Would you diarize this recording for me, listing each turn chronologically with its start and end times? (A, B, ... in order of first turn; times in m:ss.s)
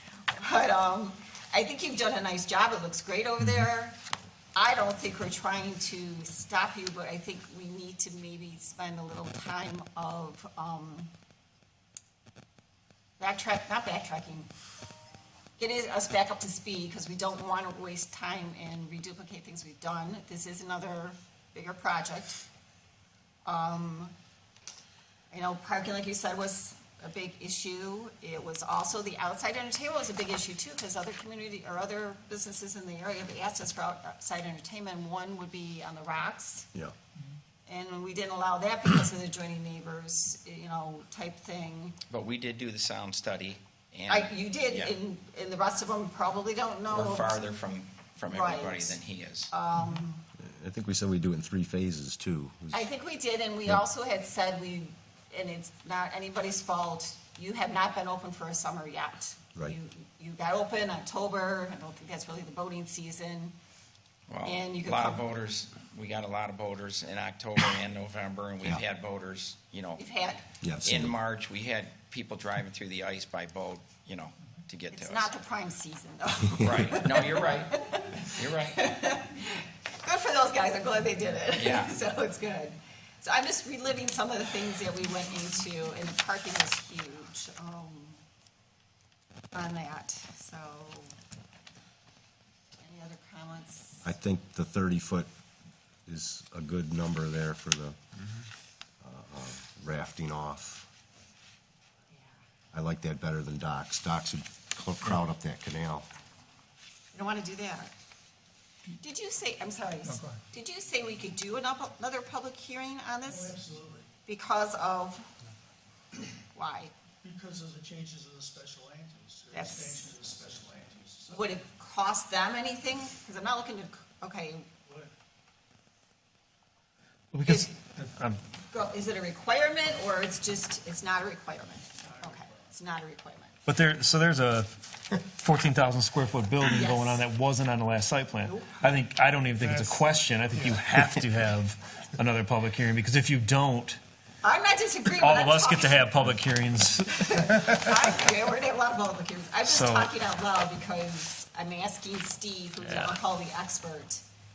0:00.3-0:04.0 A
0:04.5-0:11.1 A
0:13.2-0:14.5 A
0:15.6-0:22.4 A
0:23.4-0:24.1 A
0:25.3-0:36.7 A
0:37.6-0:42.0 A
0:42.1-0:44.9 B
0:44.1-0:47.4 A
0:46.9-0:49.5 B
0:48.3-0:49.0 A
0:49.5-0:50.2 A
0:50.4-0:52.9 C
0:52.7-1:03.5 A
1:04.3-1:10.0 B
1:04.4-1:05.2 A
1:10.0-1:10.4 A
1:10.6-1:11.2 C
1:10.8-1:15.3 B
1:14.9-1:28.2 A
1:16.6-1:19.0 B
1:16.6-1:17.0 C
1:21.5-1:21.9 B
1:29.5-1:31.2 A
1:32.8-1:34.1 A
1:34.0-1:35.3 C
1:36.1-1:38.0 C
1:39.0-1:40.9 C
1:42.7-1:46.0 C
1:47.1-1:47.9 A
1:49.0-1:53.6 A
1:53.3-1:54.1 D
1:54.2-1:55.3 A
1:56.5-1:56.9 A
1:57.2-2:01.5 D
1:59.5-2:00.1 A
2:01.3-2:04.7 A
2:04.8-2:05.1 D
2:07.3-2:08.4 E
2:08.6-2:13.6 A
2:12.0-2:12.6 D
2:13.7-2:24.0 E
2:16.6-2:17.2 A
2:19.6-2:20.8 D
2:24.4-2:26.3 A
2:25.1-2:27.9 E
2:27.2-2:34.2 A
2:29.6-2:30.1 E
2:32.8-2:33.1 E